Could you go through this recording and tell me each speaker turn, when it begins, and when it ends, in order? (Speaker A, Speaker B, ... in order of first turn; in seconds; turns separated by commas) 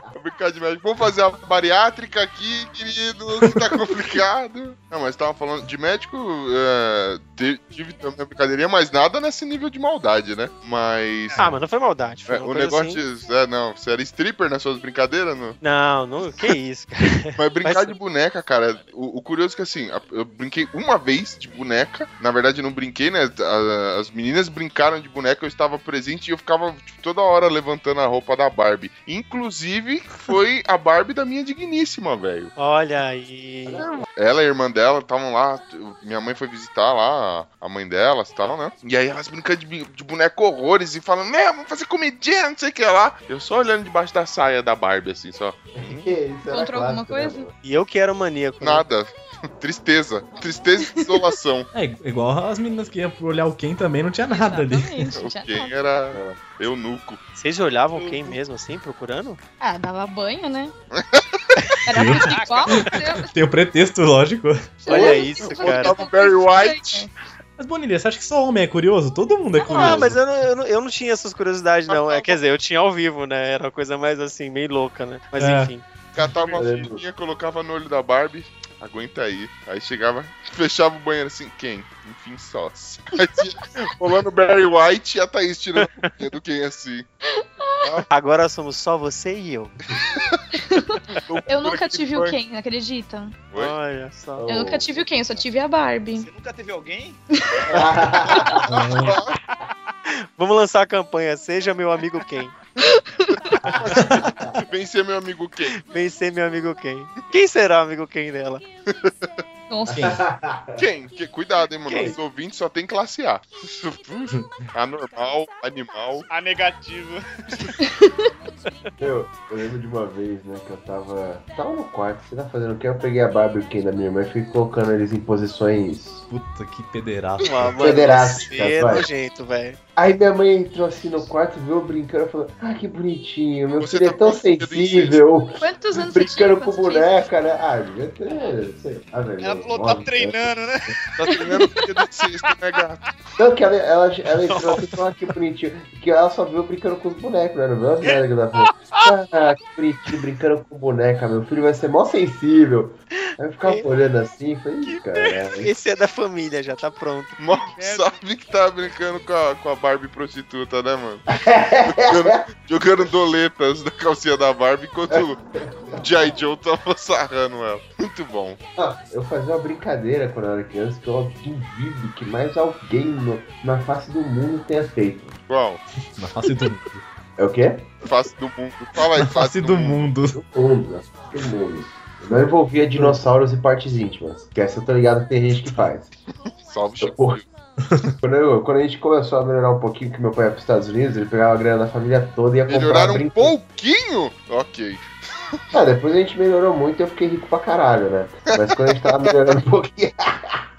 Speaker A: 0.1-11.5, Speaker B: 11.4-13.0, Speaker A: 12.3-15.6, Speaker B: 15.6-17.9, Speaker A: 17.4-32.5, Speaker B: 32.5-33.9, Speaker C: 33.7-33.9, Speaker A: 34.1-46.1, Speaker C: 45.8-47.5, Speaker D: 46.5-47.5, Speaker B: 47.6-48.8, Speaker A: 48.6-51.7, Speaker D: 50.9-51.2, Speaker E: 51.7-55.1, Speaker D: 54.3-55.8, Speaker A: 55.1-57.2, Speaker C: 56.1-56.4, Speaker B: 57.4-59.4, Speaker F: 58.0-58.4, Speaker D: 59.6-60.7, Speaker A: 60.9-61.4, Speaker D: 61.9-63.4, Speaker E: 61.9-64.8, Speaker F: 62.2-62.9, Speaker D: 64.8-67.1, Speaker B: 64.9-66.0, Speaker A: 64.9-67.0, Speaker E: 67.6-70.2, Speaker B: 69.7-75.8, Speaker A: 71.9-72.4, Speaker E: 75.3-75.7, Speaker A: 76.2-87.1, Speaker C: 76.5-77.0, Speaker B: 85.8-86.1, Speaker D: 87.6-88.0, Speaker B: 88.1-89.7, Speaker A: 89.9-90.4, Speaker D: 90.5-93.4, Speaker A: 91.2-92.4, Speaker B: 93.5-94.5, Speaker C: 94.4-95.2, Speaker D: 94.5-96.3, Speaker F: 96.2-97.2, Speaker C: 97.7-98.6, Speaker D: 98.3-98.6, Speaker E: 98.7-99.2, Speaker A: 98.8-99.3, Speaker B: 100.4-102.5, Speaker D: 102.8-103.7, Speaker A: 103.8-105.8, Speaker C: 104.1-104.4, Speaker B: 105.8-108.6, Speaker A: 109.0-109.3, Speaker D: 109.7-110.2, Speaker C: 109.9-110.8, Speaker E: 109.9-110.2, Speaker A: 110.8-116.3, Speaker B: 111.9-112.2, Speaker E: 114.3-114.7, Speaker F: 116.3-117.2, Speaker D: 117.8-118.3, Speaker C: 119.0-126.2, Speaker E: 126.3-127.8, Speaker B: 127.4-129.8, Speaker C: 127.8-129.1, Speaker C: 129.9-140.9, Speaker A: 133.8-135.2, Speaker D: 135.6-137.2, Speaker F: 139.4-140.9, Speaker A: 141.2-143.0, Speaker C: 143.4-155.7, Speaker B: 155.6-157.4, Speaker A: 157.4-161.2, Speaker F: 157.8-158.1, Speaker C: 161.4-162.4, Speaker A: 161.9-165.4, Speaker A: 165.9-168.6, Speaker C: 168.8-175.4, Speaker A: 175.5-175.8, Speaker E: 176.2-177.0, Speaker C: 177.4-177.9, Speaker A: 178.0-180.1, Speaker E: 179.1-180.4, Speaker C: 180.3-186.1, Speaker A: 186.6-187.4, Speaker C: 187.0-187.4, Speaker E: 187.8-188.1, Speaker C: 188.2-193.5, Speaker A: 192.7-195.6, Speaker C: 195.7-200.6